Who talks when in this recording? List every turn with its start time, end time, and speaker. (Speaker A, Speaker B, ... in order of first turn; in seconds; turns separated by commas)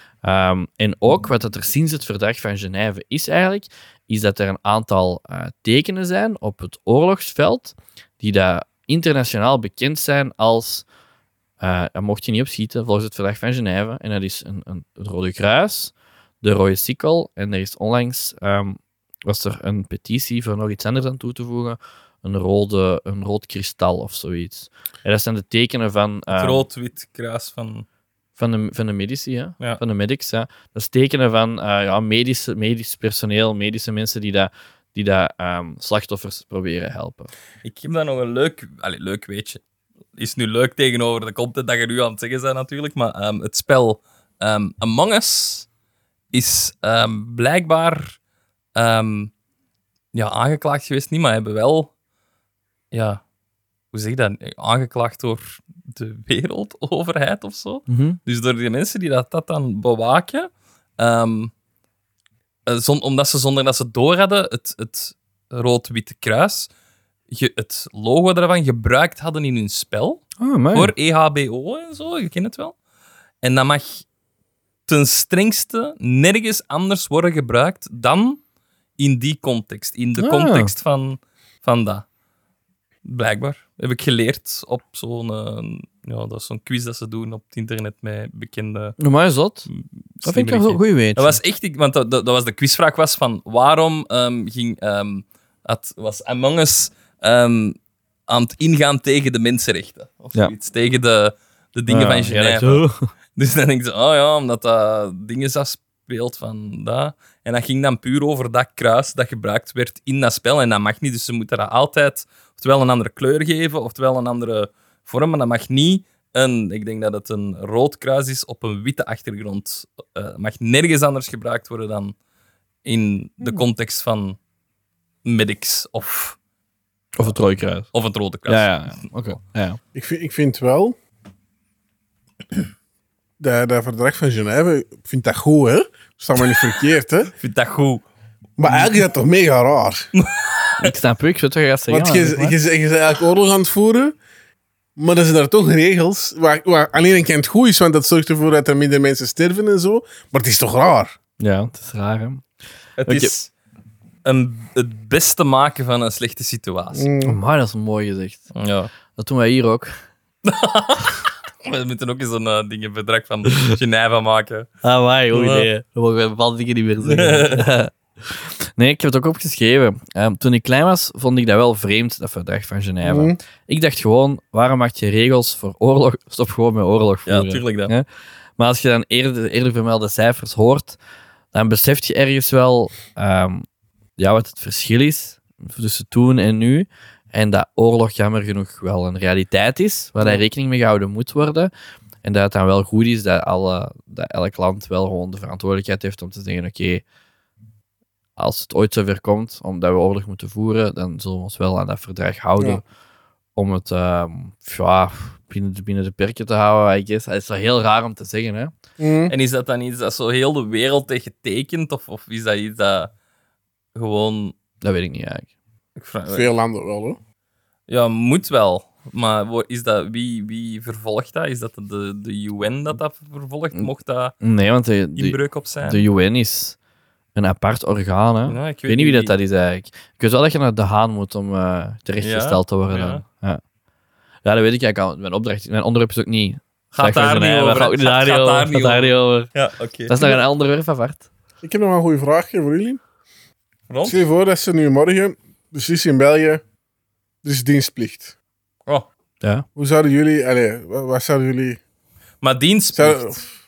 Speaker A: 0.2-10.9, Speaker A: 11.6-26.6, Speaker B: 26.3-27.9, Speaker A: 28.4-37.3, Speaker B: 37.6-39.6, Speaker B: 40.2-45.7, Speaker B: 46.3-48.2, Speaker B: 48.8-49.3, Speaker B: 50.1-51.9, Speaker B: 52.9-53.2, Speaker B: 53.9-61.5, Speaker A: 57.9-58.2, Speaker B: 62.7-66.7, Speaker B: 67.3-72.8, Speaker A: 70.4-70.9, Speaker B: 73.4-74.0, Speaker B: 74.9-78.4, Speaker B: 79.0-82.1, Speaker A: 80.2-80.7, Speaker B: 83.0-89.0, Speaker A: 89.0-89.7, Speaker B: 89.7-122.2, Speaker A: 90.2-91.4, Speaker A: 101.9-103.1, Speaker B: 122.8-124.4, Speaker B: 125.2-126.4, Speaker A: 127.2-127.9, Speaker B: 127.9-128.7, Speaker A: 128.5-129.8, Speaker C: 129.9-131.0, Speaker C: 133.4-137.3, Speaker B: 137.4-138.1, Speaker C: 138.6-140.1, Speaker B: 138.7-138.9, Speaker B: 140.2-140.9, Speaker A: 140.8-142.6, Speaker C: 141.9-144.2, Speaker C: 145.0-151.2, Speaker A: 151.4-152.4, Speaker B: 153.0-153.5, Speaker A: 153.1-153.3, Speaker B: 154.2-157.1, Speaker C: 156.9-157.4, Speaker A: 157.2-158.5, Speaker B: 158.5-158.9, Speaker A: 159.2-159.9, Speaker B: 160.4-164.7, Speaker A: 164.8-178.1, Speaker B: 165.3-165.7, Speaker B: 167.1-167.7, Speaker C: 173.0-173.4, Speaker B: 177.3-177.9, Speaker A: 178.6-181.0, Speaker A: 181.5-183.7, Speaker A: 184.2-191.7, Speaker A: 192.2-197.0, Speaker A: 198.4-202.8, Speaker A: 203.6-208.7, Speaker C: 209.0-209.3, Speaker B: 209.3-213.1, Speaker B: 213.9-214.6, Speaker A: 214.8-215.5, Speaker B: 216.0-216.5, Speaker C: 216.3-217.2, Speaker B: 217.9-224.3, Speaker A: 224.4-226.8, Speaker B: 225.2-226.0, Speaker A: 227.3-233.6, Speaker B: 228.5-229.3, Speaker B: 232.2-233.2, Speaker A: 234.4-239.5, Speaker B: 236.9-240.1, Speaker A: 240.1-241.3, Speaker C: 241.6-243.0, Speaker B: 243.9-244.3, Speaker C: 244.1-246.6, Speaker C: 247.4-248.3, Speaker C: 249.8-251.8, Speaker B: 252.4-253.3, Speaker C: 253.0-253.5